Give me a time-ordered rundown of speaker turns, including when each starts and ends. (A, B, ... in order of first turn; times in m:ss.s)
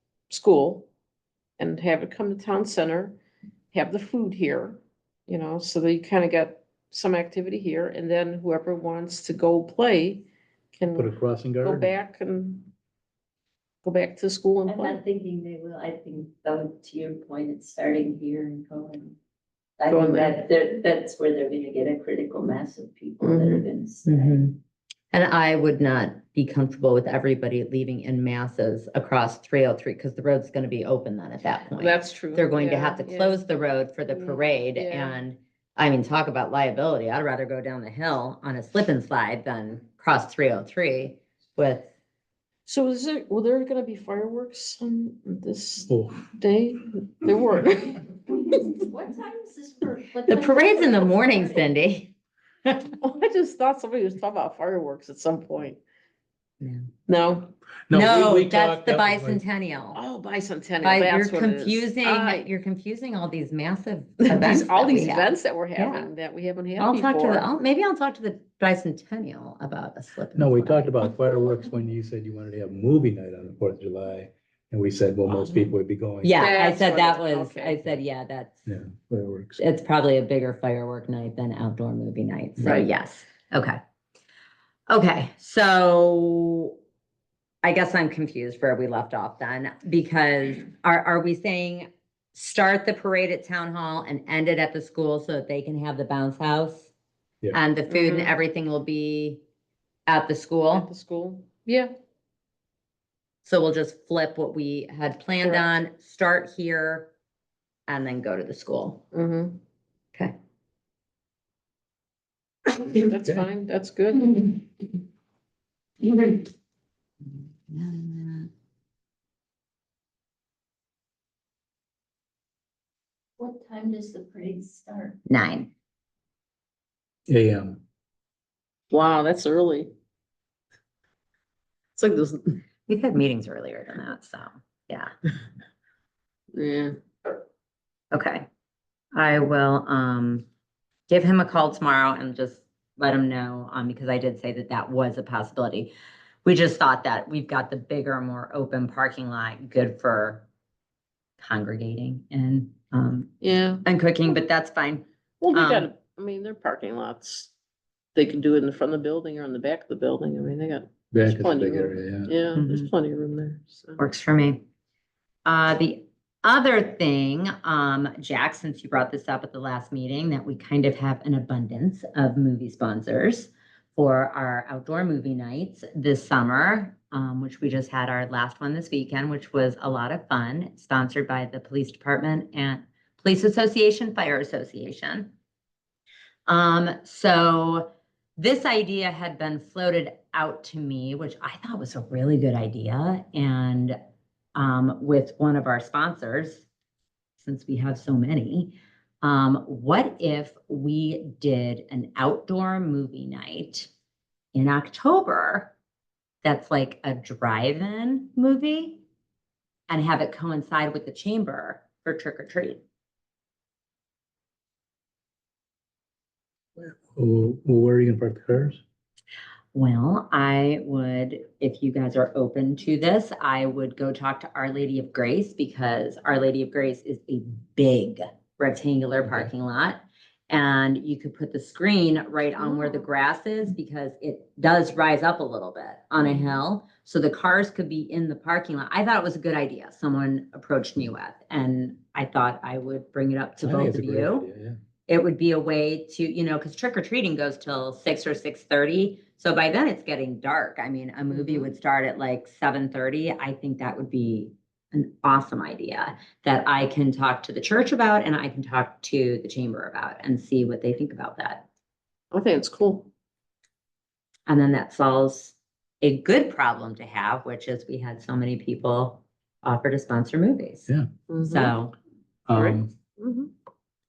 0:00.3-0:00.9 A
0:01.6-0:03.2 A
0:03.7-0:12.7 A
0:10.9-0:11.9 B
0:13.8-0:15.0 A
0:14.6-0:19.2 C
0:19.8-0:24.4 C
0:19.9-0:20.4 A
0:23.2-0:23.6 A
0:24.0-0:24.6 D
0:25.1-0:41.9 D
0:31.7-0:33.4 A
0:34.1-0:35.2 A
0:42.6-0:48.7 A
0:45.9-0:46.3 B
0:48.4-0:51.6 C
0:50.3-0:52.1 D
0:53.0-0:55.8 A
0:56.6-0:56.9 D
0:57.1-0:57.5 A
0:57.9-0:59.4 B
0:57.9-1:00.0 D
0:59.9-1:02.4 A
1:00.8-1:06.1 D
1:04.2-1:07.5 A
1:06.8-1:11.0 D
1:10.3-1:16.4 B
1:16.2-1:18.6 D
1:16.3-1:17.8 A
1:18.6-1:19.6 B
1:19.6-1:23.8 D
1:22.6-1:22.8 B
1:24.9-1:26.7 D
1:27.6-1:36.9 D
1:37.5-1:39.4 D
1:37.9-1:38.3 A
1:40.1-1:40.9 D
1:40.7-1:41.9 A
1:43.4-1:47.1 D
1:45.4-1:45.7 A
1:47.9-1:49.0 D
1:49.1-1:49.6 A
1:52.7-1:54.5 A
1:56.0-1:56.4 D
1:57.2-1:58.5 D
2:03.4-2:05.2 C
2:05.3-2:05.7 D
2:07.3-2:07.8 B
2:08.9-2:09.9 A
2:12.0-2:12.6 A
2:12.9-2:15.1 D
2:16.5-2:17.0 A
2:18.1-2:18.4 D
2:19.1-2:20.4 D
2:21.1-2:25.9 D
2:26.4-2:30.4 D
2:31.4-2:33.3 D
2:33.4-2:33.8 A
2:33.8-2:35.9 D
2:35.4-2:37.5 A
2:38.1-2:44.0 A
2:41.1-2:42.3 B
2:42.5-2:42.9 D
2:44.0-2:44.6 D
2:45.4-3:05.3 D
3:06.5-3:14.0 D
3:14.5-3:16.7 D
3:17.4-3:23.9 D
3:24.5-3:25.7 D
3:26.4-3:29.0 D
3:29.9-3:32.8 D
3:36.8-3:38.8 B
3:39.7-4:04.4 D
4:03.6-4:04.8 B
4:05.1-4:21.7 D
4:22.3-4:23.1 A
4:24.5-4:30.9 D
4:31.3-4:31.7 A
4:31.4-4:31.9 D
4:32.4-4:32.9 B
4:32.7-4:33.5 A